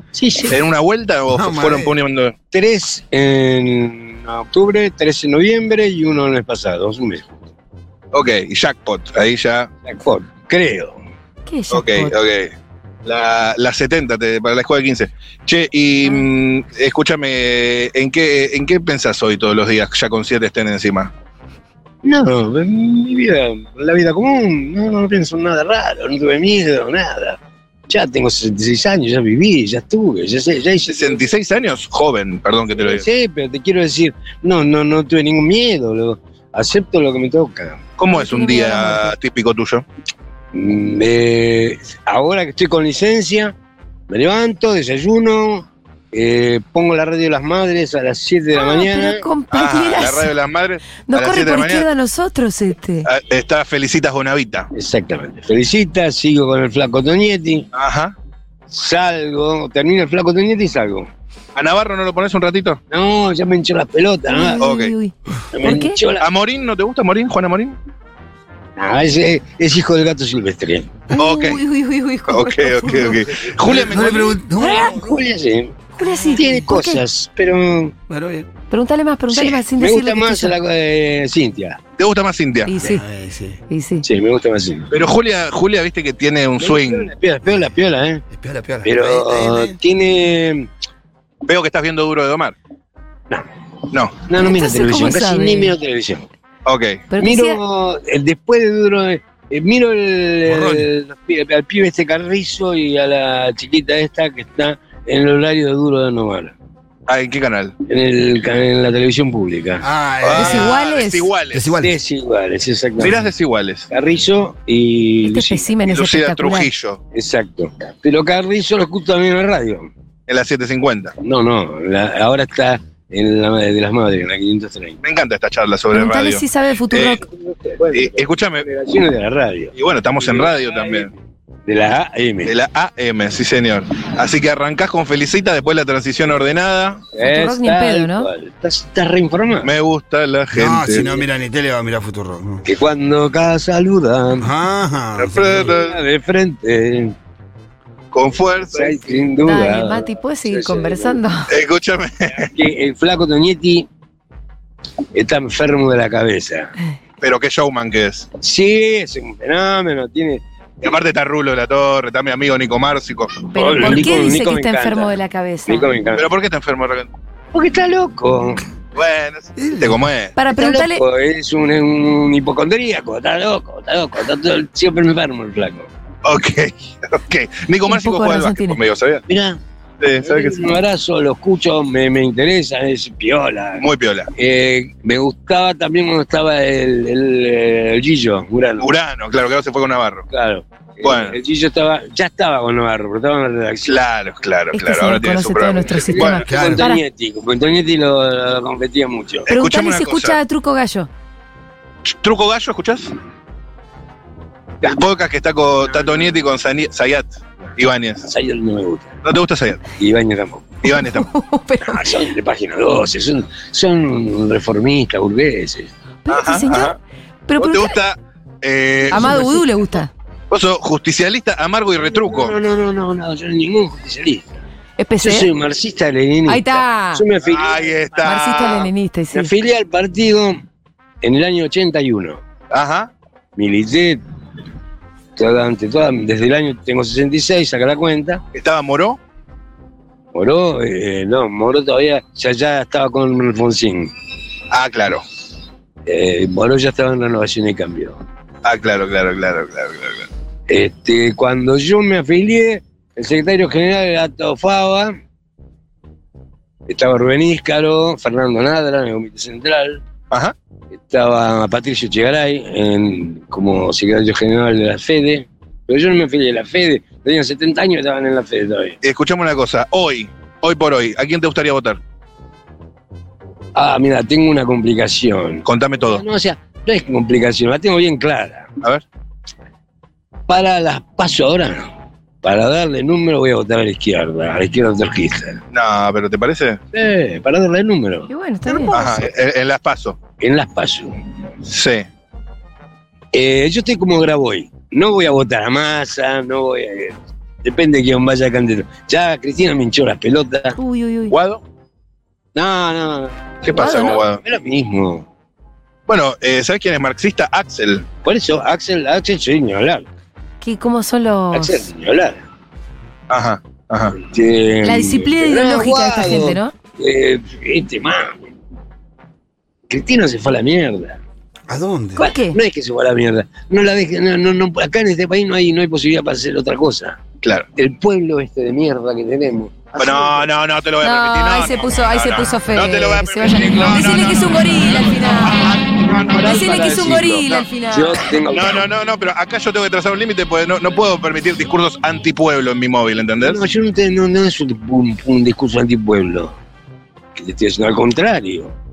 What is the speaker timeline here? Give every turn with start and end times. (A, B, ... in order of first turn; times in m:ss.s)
0:00.1-0:00.6 A
0:00.5-0:02.3 B
0:01.3-0:01.9 C
0:02.5-0:07.3 A
0:08.1-0:09.7 B
0:09.8-0:11.0 A
0:11.4-0:12.2 D
0:11.7-0:12.5 B
0:13.0-0:21.1 B
0:22.0-0:31.3 A
0:30.8-0:33.0 B
0:32.7-0:37.8 A
0:38.0-0:39.8 B
0:38.1-0:39.1 D
0:40.5-0:43.5 A
0:44.1-0:49.2 A
0:48.5-0:50.3 D
0:49.5-0:51.9 B
0:51.0-0:53.1 D
0:53.0-0:54.7 B
0:54.7-0:57.7 A
0:57.7-0:58.1 B
0:58.7-1:01.1 A
1:01.5-1:02.8 B
1:02.9-1:04.6 A
1:04.3-1:06.0 D
1:04.6-1:04.9 B
1:05.5-1:06.3 A
1:06.2-1:07.7 B
1:08.8-1:11.0 A
1:11.1-1:13.3 D
1:11.1-1:11.6 B
1:12.3-1:14.4 B
1:13.6-1:15.2 C
1:14.6-1:15.0 D
1:14.6-1:17.9 A
1:16.0-1:17.0 D
1:18.1-1:18.5 C
1:18.7-1:20.6 D
1:19.3-1:21.8 A
1:22.0-1:22.7 B
1:22.6-1:23.0 D
1:22.8-1:23.6 C
1:23.7-1:24.0 D
1:24.0-1:24.9 A
1:24.9-1:27.1 B
1:26.6-1:28.2 A
1:28.3-1:29.8 C
1:28.8-1:30.7 A
1:31.4-1:32.6 B
1:33.9-1:34.2 B
1:34.2-1:36.3 A
1:34.4-1:35.8 D
1:36.6-1:37.0 B
1:37.1-1:37.6 D
1:37.2-1:46.5 A
1:40.4-1:40.9 C
1:47.1-1:47.7 B
1:47.8-1:49.8 A
1:49.8-1:50.8 C
1:50.2-1:51.6 B
1:50.3-1:51.3 D
1:51.5-1:52.0 C
1:51.8-1:53.2 A
1:53.0-1:53.9 B
1:53.9-1:55.8 A
1:55.2-1:56.7 D
1:55.9-1:57.0 B
1:57.1-1:59.9 A
2:00.3-2:01.1 B
2:01.2-2:05.0 A
2:05.0-2:07.2 B
2:05.9-2:07.2 D
2:07.3-2:11.1 A
2:07.9-2:08.7 B
2:09.7-2:11.1 B
2:11.6-2:12.6 A
2:12.4-2:17.0 B
2:17.1-2:19.7 A
2:17.2-2:18.3 D
2:19.6-2:21.2 B
2:20.5-2:22.6 C
2:22.6-2:24.5 A
2:24.4-2:25.7 C
2:25.2-2:26.0 B
2:25.6-2:27.1 A
2:28.1-2:29.2 B
2:28.6-2:31.2 A
2:29.4-2:31.5 D
2:31.5-2:32.5 B
2:32.4-2:33.9 A
2:35.1-2:36.7 A
2:37.2-2:38.3 B
2:38.4-2:40.4 A
2:40.8-2:44.1 B
2:43.5-2:45.9 D
2:43.5-2:46.3 A
2:46.1-2:47.1 B
2:47.5-2:48.6 A
2:48.9-2:50.3 B
2:49.6-2:50.0 C
2:50.4-2:51.0 D
2:50.4-2:55.9 A
2:56.2-2:59.2 B
2:57.9-2:58.8 D
2:59.3-2:59.6 A
3:00.0-3:00.7 B
3:00.2-3:08.9 A
3:03.8-3:04.3 B
3:08.8-3:10.2 B
3:10.3-3:14.0 A
3:11.0-3:11.4 B
3:13.8-3:16.5 B
3:14.7-3:17.0 D
3:15.8-3:19.5 A
3:16.4-3:16.9 C
3:19.4-3:20.4 B
3:19.5-3:21.1 D
3:22.0-3:23.1 B
3:24.8-3:28.3 B
3:25.9-3:26.4 A
3:28.2-3:29.2 A
3:29.2-3:29.8 B
3:30.0-3:30.8 A
3:30.8-3:31.3 B
3:30.8-3:32.1 D
3:31.8-3:35.9 A
3:36.2-3:37.0 D
3:36.3-3:36.9 B
3:37.5-3:38.0 D
3:37.6-3:39.6 B
3:39.1-3:40.1 D
3:39.2-3:39.6 A
3:40.5-3:42.6 B
3:42.1-3:44.6 A
3:45.0-3:45.5 D
3:45.2-3:50.6 A
3:46.5-3:47.2 D
3:47.4-3:48.9 B
3:48.2-3:49.5 D
3:51.2-3:52.4 A
3:52.7-3:53.1 B
3:53.6-3:54.2 A
3:55.4-3:58.4 A
3:58.5-3:59.2 B
4:00.3-4:04.1 A
4:04.7-4:05.2 B
4:06.0-4:08.2 A
4:08.6-4:10.3 B
4:10.7-4:15.1 A
4:16.9-4:20.0 A
4:20.9-4:29.0 A
4:29.0-4:32.0 B
4:33.7-4:38.7 A
4:35.6-4:36.2 B
4:40.5-4:41.9 A
4:42.4-4:45.6 A
4:45.7-4:46.8 B
4:46.9-4:48.3 A
4:48.3-4:49.0 D
4:48.8-4:49.2 A
4:48.9-4:50.2 B
4:50.4-4:51.1 A
4:51.7-4:52.0 B
4:53.3-5:00.8 A
5:00.8-5:01.3 D
5:01.3-5:01.6 B
5:02.5-5:05.2 A
5:03.6-5:04.4 B
5:03.8-5:04.2 D
5:06.1-5:08.0 B
5:08.2-5:10.1 A
5:10.6-5:11.9 D
5:11.5-5:12.4 A
5:13.3-5:14.2 B
5:14.2-5:18.5 A
5:14.8-5:16.7 D
5:19.9-5:21.2 A
5:21.7-5:22.2 C
5:22.2-5:22.6 D
5:22.2-5:27.2 A
5:27.4-5:27.7 B
5:27.8-5:30.5 A
5:30.0-5:37.6 B
5:31.0-5:35.6 D
5:35.9-5:38.9 A
5:36.4-5:38.2 D
5:38.5-5:43.7 B
5:43.4-5:46.5 A
5:47.4-5:48.7 A